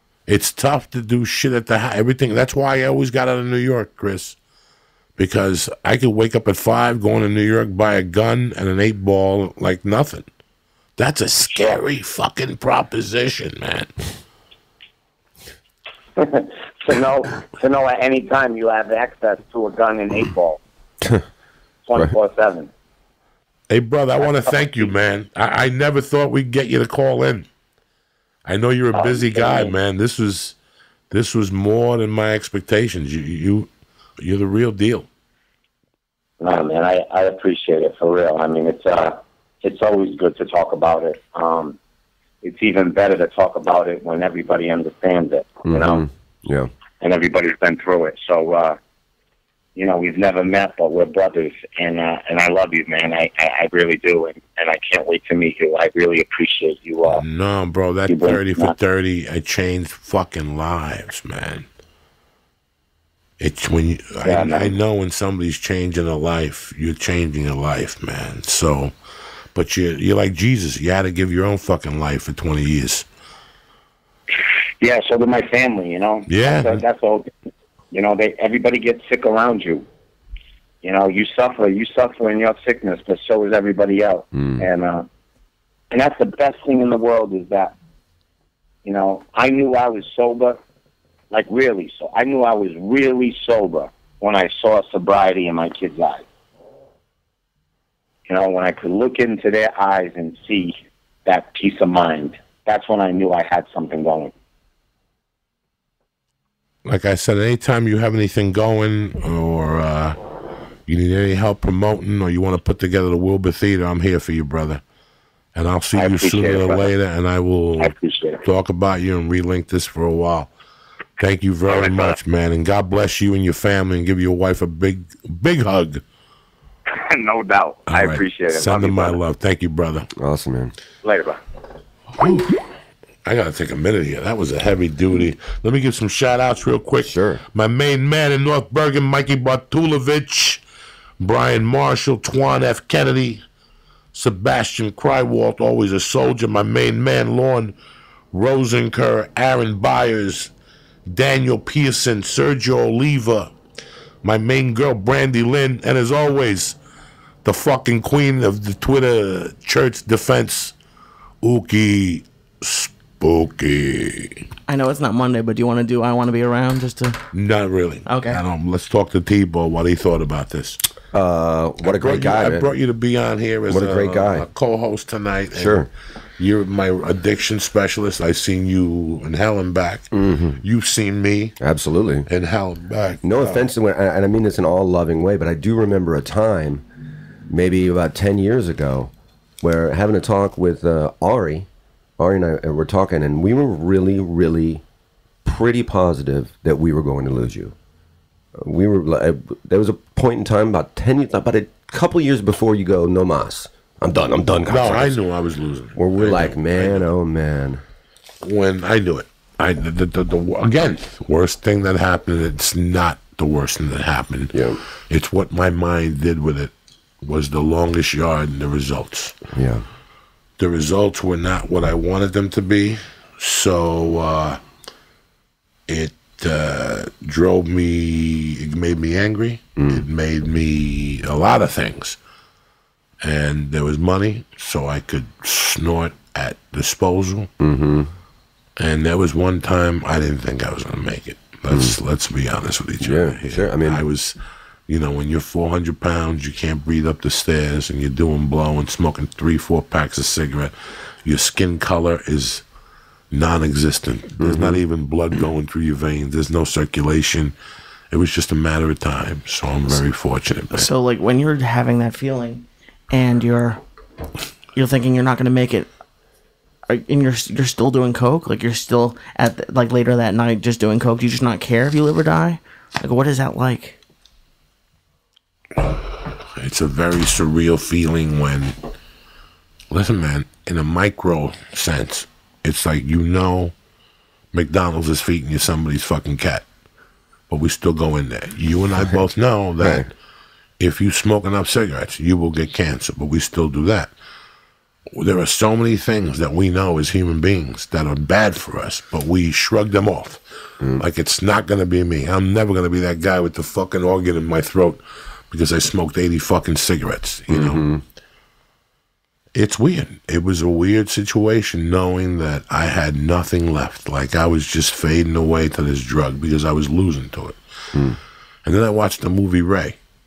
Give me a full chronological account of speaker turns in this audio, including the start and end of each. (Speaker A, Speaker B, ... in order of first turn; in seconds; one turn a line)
Speaker A: 0.3-4.4
Speaker A: 5.2-10.3
Speaker A: 11.0-14.1
Speaker B: 11.5-11.8
Speaker B: 16.2-20.6
Speaker B: 21.9-22.7
Speaker A: 23.7-27.5
Speaker B: 24.2-24.9
Speaker A: 28.5-30.6
Speaker B: 28.9-29.8
Speaker A: 31.1-33.7
Speaker A: 34.2-35.1
Speaker B: 36.4-41.8
Speaker B: 42.4-46.0
Speaker C: 45.7-46.7
Speaker B: 47.0-48.8
Speaker B: 49.8-57.2
Speaker A: 57.1-61.7
Speaker B: 58.1-58.7
Speaker A: 63.4-68.9
Speaker B: 64.2-64.7
Speaker A: 69.5-73.1
Speaker B: 74.3-77.3
Speaker A: 76.3-76.8
Speaker B: 77.9-79.9
Speaker B: 80.8-85.1
Speaker C: 84.3-84.7
Speaker B: 85.9-87.8
Speaker B: 88.8-90.6
Speaker B: 91.3-96.2
Speaker B: 98.3-104.3
Speaker A: 106.8-110.2
Speaker A: 110.9-114.8
Speaker A: 115.5-117.9
Speaker B: 115.9-116.9
Speaker B: 117.8-118.4
Speaker A: 118.4-120.5
Speaker A: 121.2-126.0
Speaker B: 121.7-122.2
Speaker B: 126.9-129.2
Speaker A: 127.9-130.1
Speaker C: 130.2-130.7
Speaker B: 131.0-131.4
Speaker A: 132.2-132.6
Speaker A: 133.2-140.6
Speaker C: 137.0-137.4
Speaker A: 141.2-143.4
Speaker A: 144.1-147.7
Speaker A: 148.3-150.5
Speaker A: 151.1-153.5
Speaker A: 154.2-156.8
Speaker A: 157.4-160.7
Speaker A: 161.4-164.4
Speaker D: 164.7-167.2
Speaker A: 167.3-170.8
Speaker D: 168.1-168.4
Speaker C: 171.1-172.7
Speaker A: 171.8-175.9
Speaker C: 173.7-174.5
Speaker C: 175.6-175.9
Speaker A: 176.4-180.1
Speaker C: 180.1-180.6
Speaker A: 180.6-181.6
Speaker C: 181.6-182.3
Speaker A: 182.3-183.6
Speaker C: 183.2-186.8
Speaker C: 187.5-191.7
Speaker C: 192.2-194.8
Speaker C: 195.4-197.8
Speaker C: 198.6-205.2
Speaker A: 204.7-207.1
Speaker C: 206.0-207.8
Speaker A: 208.4-214.6
Speaker C: 214.5-214.8
Speaker A: 215.1-219.4
Speaker C: 219.5-219.8
Speaker A: 220.6-224.6
Speaker A: 225.9-232.2
Speaker C: 229.8-230.1
Speaker A: 233.2-237.5
Speaker C: 237.6-238.1
Speaker A: 238.8-244.4
Speaker C: 241.7-241.9
Speaker C: 243.0-244.0
Speaker A: 244.9-250.7
Speaker A: 251.2-252.7
Speaker A: 253.3-257.6
Speaker C: 254.4-254.8
Speaker A: 258.1-260.9
Speaker D: 260.7-263.8
Speaker D: 264.8-265.9
Speaker D: 266.9-274.0
Speaker A: 275.8-278.8
Speaker A: 279.9-283.7
Speaker A: 284.5-286.7
Speaker A: 287.5-290.1
Speaker C: 289.8-290.1
Speaker A: 290.8-294.1
Speaker A: 295.1-300.4
Speaker A: 301.0-307.9
Speaker C: 307.5-308.0
Speaker A: 309.6-317.6
Speaker A: 318.6-320.0